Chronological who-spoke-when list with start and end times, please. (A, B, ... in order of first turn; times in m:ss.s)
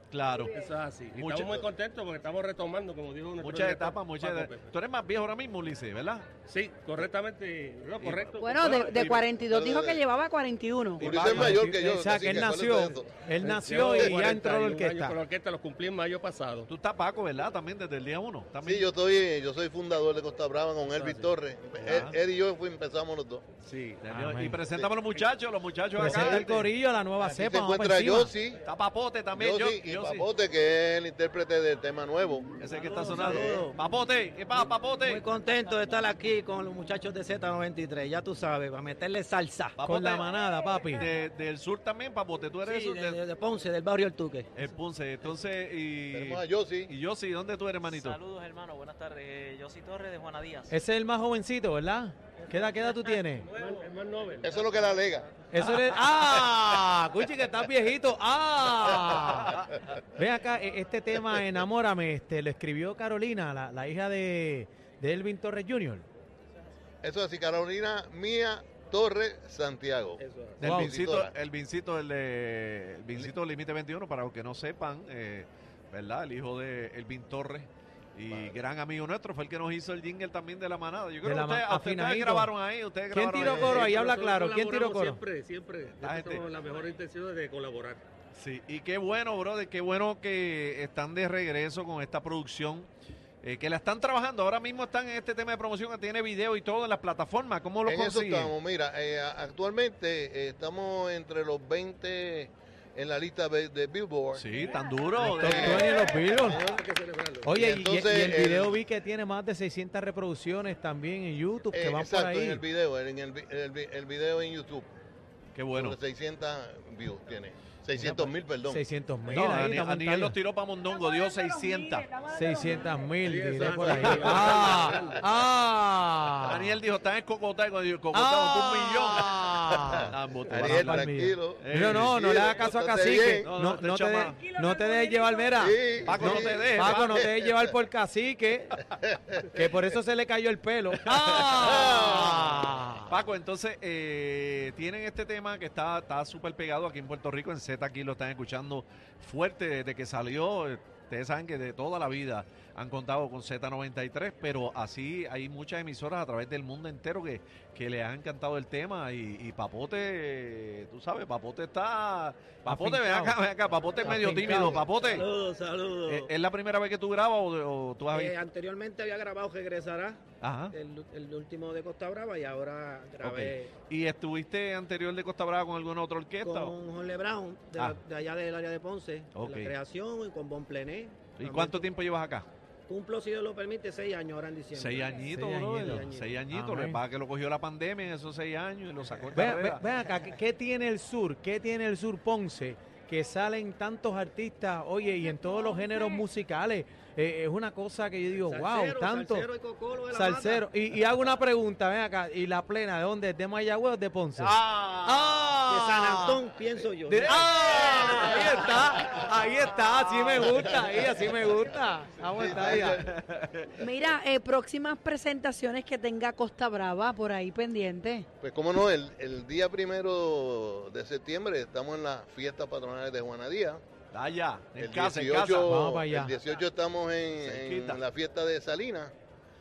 0:00.1-0:00.5 A
0:00.5-0:04.7 B
0:01.1-0:01.6 A
0:03.4-0:06.3 A
0:06.5-0:08.7 B
0:08.0-0:09.2 A
0:08.4-0:11.2 C
0:09.5-0:10.0 D
0:11.0-0:13.1 D
0:11.1-0:11.5 B
0:11.1-0:15.2 E
0:13.4-0:16.7 B
0:13.9-0:14.2 D
0:16.7-0:18.9 A
0:18.6-0:23.5 D
0:21.0-0:21.3 B
0:21.8-0:22.2 A
0:23.6-0:24.0 B
0:24.0-0:26.7 A
0:24.1-0:24.6 E
0:26.0-0:28.3 E
0:26.0-0:26.4 D
0:27.2-0:28.6 D
0:28.6-0:30.3 A
0:29.4-0:32.5 D
0:32.6-0:35.2 A
0:32.7-0:33.8 F
0:33.1-0:33.7 D
0:35.0-0:39.8 F
0:39.8-0:40.3 A
0:39.8-0:41.1 E
0:40.9-0:43.2 A
0:42.6-0:44.5 F
0:44.6-0:48.2 A
0:46.1-0:46.9 D
0:47.9-0:50.7 G
0:50.7-0:53.5 E
0:53.5-0:54.6 B
0:54.4-0:55.3 D
0:55.5-1:06.1 E
1:07.0-1:11.3 D
1:10.2-1:10.6 B
1:10.6-1:23.8 A
1:10.6-1:11.0 E
1:21.2-1:22.5 E
1:23.1-1:25.2 E
1:23.4-1:23.8 D
1:23.5-1:28.0 B
1:26.0-1:26.4 A
1:28.4-1:32.9 A
1:33.4-1:38.5 A
1:37.8-1:44.4 D
1:44.4-1:46.0 A
1:45.2-1:46.6 E
1:45.3-1:46.8 D
1:45.7-1:47.5 B
1:47.4-1:52.6 E
1:47.5-1:48.8 D
1:51.7-1:54.9 D
1:55.6-1:56.0 A
1:55.8-1:58.8 D
1:58.0-2:00.4 E
1:59.3-2:02.1 A
2:02.1-2:02.7 C
2:02.3-2:06.8 E
2:03.2-2:05.2 B
2:03.6-2:04.3 D
2:04.0-2:04.8 A
2:06.4-2:09.4 A
2:08.1-2:18.8 E
2:10.1-2:11.1 A
2:10.5-2:13.5 D
2:11.6-2:12.1 A
2:13.4-2:14.4 A
2:14.4-2:15.6 C
2:15.6-2:17.7 D
2:16.0-2:17.2 A
2:19.0-2:19.6 D
2:19.5-2:23.1 E
2:21.1-2:22.3 A
2:21.6-2:22.6 D
2:23.1-2:45.3 A
2:42.7-2:43.4 E
2:44.0-2:46.3 F
2:44.0-2:44.8 E
2:46.1-2:48.4 A
2:48.1-2:53.7 F
2:50.4-2:50.8 A
2:53.2-2:56.8 A
2:56.4-3:01.9 F
2:59.3-2:59.8 A
3:01.4-3:02.5 A
3:02.9-3:06.5 F
3:04.7-3:09.8 A
3:05.3-3:07.0 E
3:09.3-3:19.5 E
3:18.4-3:20.7 F
3:20.1-3:26.4 E
3:24.4-3:25.6 A
3:25.7-3:27.4 F
3:27.1-3:33.0 E
3:27.1-3:29.1 A
3:30.0-3:30.5 A
3:32.4-3:33.1 D
3:32.6-3:33.8 A
3:33.8-3:38.3 C
3:38.4-3:43.8 D
3:44.1-3:45.8 A
3:44.8-3:49.1 D
3:45.7-3:46.3 E
3:47.4-3:48.0 A